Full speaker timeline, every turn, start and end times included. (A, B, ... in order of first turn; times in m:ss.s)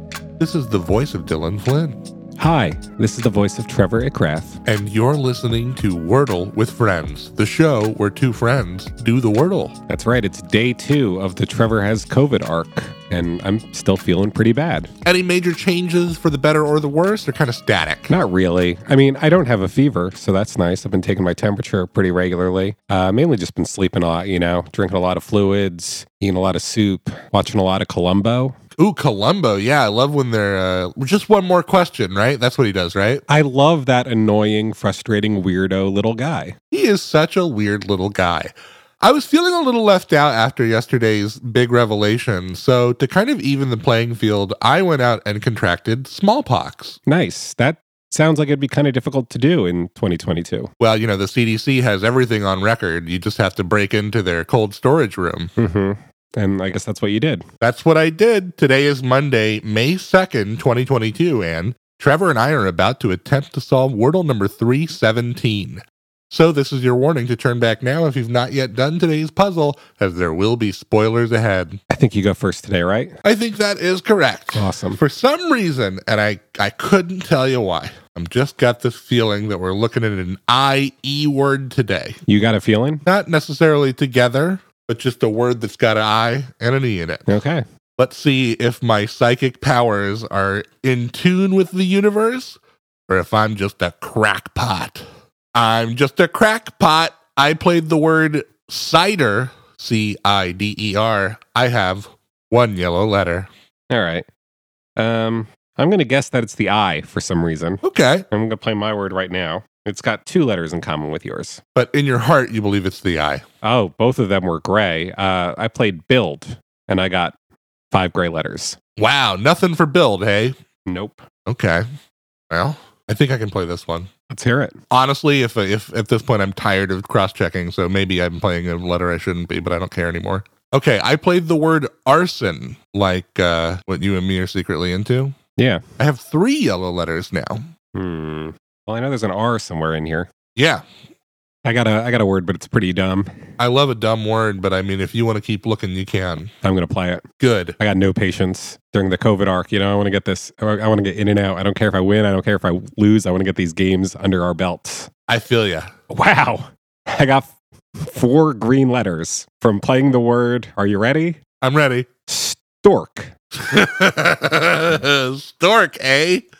0:00.4-0:02.0 A
0:02.4-0:04.6 B
0:04.6-0:09.7 A
0:09.9-0:14.9 B
0:15.0-0:18.2 A
0:18.1-0:28.6 B
0:28.8-0:33.2 A
0:33.3-0:36.5 B
0:36.7-0:47.0 A
0:47.0-0:50.7 B
0:50.8-0:55.5 A
0:55.6-0:57.4 B
0:57.6-1:11.8 A
1:11.9-1:13.1 B
1:13.2-1:22.2 A
1:14.5-1:15.0 B
1:22.3-1:23.0 B
1:23.0-1:27.4 A
1:27.3-1:27.6 B
1:28.0-1:43.5 A
1:43.9-1:44.2 B
1:45.0-1:51.6 B
1:47.8-1:48.3 A
1:51.7-1:53.4 A
1:53.6-1:57.3 B
1:57.9-1:58.8 B
1:59.0-2:00.5 A
2:00.9-2:01.2 B
2:01.4-2:01.8 A
2:02.5-2:04.1 A
2:04.3-2:04.8 B
2:04.9-2:15.3 A
2:15.6-2:15.8 B
2:16.0-2:17.6 A
2:17.9-2:20.3 B
2:20.6-2:20.8 A
2:21.6-2:23.3 B
2:23.6-2:26.5 A
2:26.6-2:27.2 B
2:27.4-2:27.8 A
2:27.8-2:35.1 B
2:35.3-2:35.9 A
2:36.1-2:41.4 B
2:41.6-2:42.1 A
2:42.3-2:43.3 B
2:43.5-2:46.4 A